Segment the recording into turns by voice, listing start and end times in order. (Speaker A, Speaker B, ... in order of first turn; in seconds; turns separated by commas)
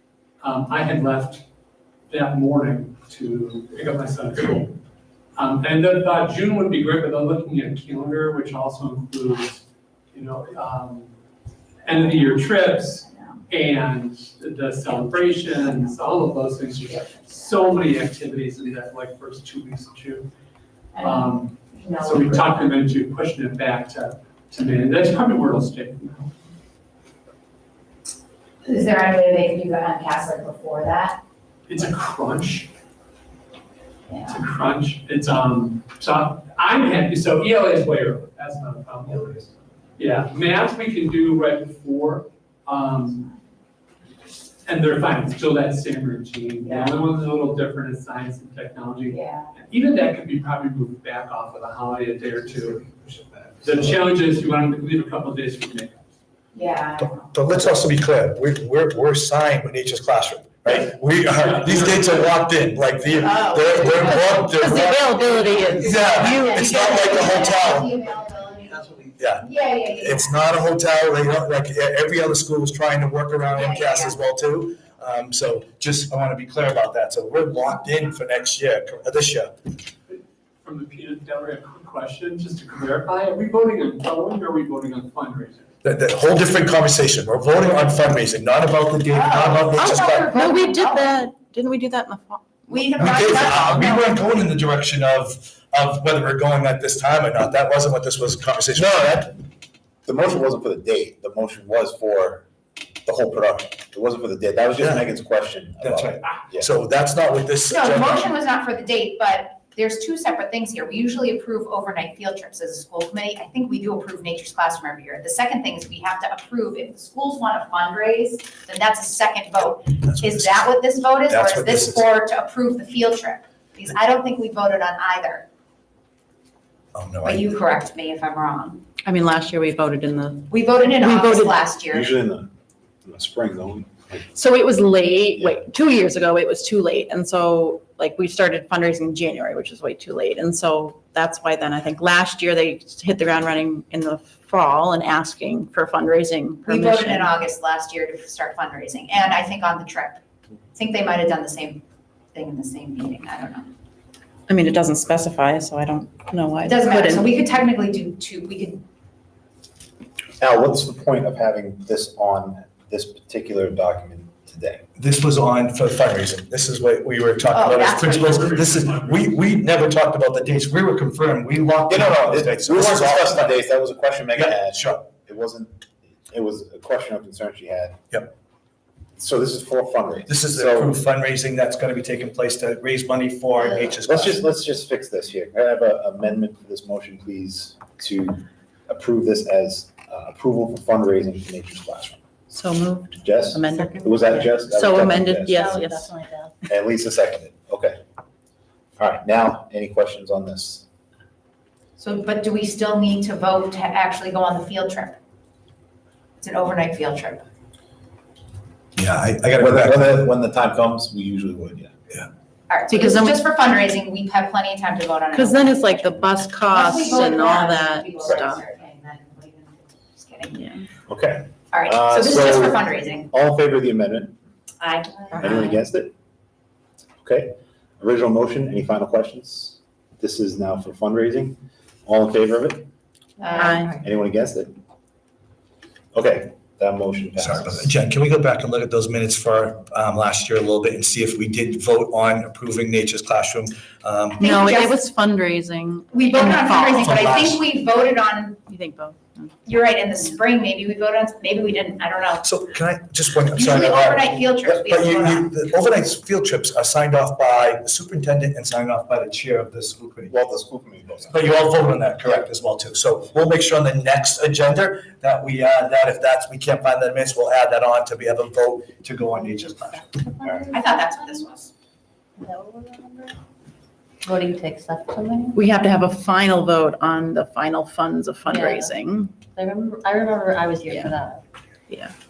Speaker A: 0.4-1.4, Speaker A: 2.1-4.8, Speaker A: 5.3-11.1, Speaker A: 11.8-20.3, Speaker B: 20.9-22.6, Speaker A: 21.0-26.3, Speaker B: 28.6-31.2, Speaker A: 31.7-32.7, Speaker B: 34.1-34.4, Speaker A: 34.3-43.3, Speaker A: 44.6-53.0, Speaker B: 46.6-47.0, Speaker B: 49.1-49.5, Speaker A: 53.6-56.0, Speaker B: 56.5-57.7, Speaker C: 57.0-67.9, Speaker A: 61.3-62.4, Speaker B: 63.2-64.7, Speaker D: 64.2-67.2, Speaker B: 66.2-70.4, Speaker C: 69.2-79.5, Speaker B: 73.5-74.2, Speaker A: 80.1-85.7, Speaker C: 85.8-90.4, Speaker B: 89.1-91.2, Speaker D: 89.8-93.1, Speaker B: 92.7-94.2, Speaker C: 93.0-99.3, Speaker E: 98.8-99.3, Speaker E: 100.0-102.5, Speaker E: 103.0-106.7, Speaker C: 105.8-108.3, Speaker B: 107.7-125.5, Speaker C: 120.0-122.0, Speaker C: 127.0-127.5, Speaker B: 127.2-128.8, Speaker D: 129.0-131.7, Speaker B: 130.5-132.1, Speaker E: 131.9-132.5, Speaker E: 133.1-134.3, Speaker D: 134.3-147.3, Speaker E: 135.3-135.7, Speaker B: 146.7-150.2, Speaker B: 150.7-153.7, Speaker D: 154.5-157.3, Speaker B: 156.6-158.8, Speaker E: 160.4-164.8, Speaker C: 165.0-173.5, Speaker B: 167.5-168.2, Speaker A: 167.9-169.4, Speaker E: 171.9-178.0, Speaker C: 174.3-175.0, Speaker E: 179.2-181.0, Speaker C: 180.3-184.4, Speaker E: 183.9-192.2, Speaker D: 192.5-196.1, Speaker E: 193.2-196.1, Speaker F: 193.8-194.6, Speaker F: 195.5-196.6, Speaker E: 196.7-198.0, Speaker E: 199.0-200.8, Speaker B: 202.0-205.2, Speaker B: 206.4-207.5, Speaker C: 209.0-210.2, Speaker E: 209.6-211.9, Speaker B: 212.7-216.1, Speaker D: 212.9-213.4, Speaker D: 215.3-218.6, Speaker B: 216.7-220.7, Speaker D: 220.5-220.9, Speaker E: 221.1-224.3, Speaker B: 221.7-223.3, Speaker B: 224.8-225.4, Speaker F: 225.3-225.8, Speaker E: 225.4-226.1, Speaker E: 227.2-232.8, Speaker B: 233.4-233.8, Speaker F: 233.5-233.9, Speaker D: 233.5-234.0, Speaker E: 234.0-234.7, Speaker E: 236.1-237.9, Speaker C: 237.4-244.4, Speaker B: 244.4-245.0, Speaker D: 244.4-247.2, Speaker B: 246.1-248.6, Speaker C: 247.0-247.6, Speaker D: 248.7-249.6, Speaker B: 249.7-252.6, Speaker C: 252.4-260.3, Speaker B: 253.5-255.6, Speaker E: 260.3-261.4, Speaker C: 261.3-270.2, Speaker F: 270.2-271.4, Speaker E: 270.4-270.7, Speaker B: 270.7-271.7, Speaker F: 272.4-273.4, Speaker F: 274.2-275.6, Speaker D: 275.5-279.4, Speaker F: 278.5-278.9, Speaker F: 279.5-281.4, Speaker D: 280.9-281.2, Speaker D: 281.9-282.1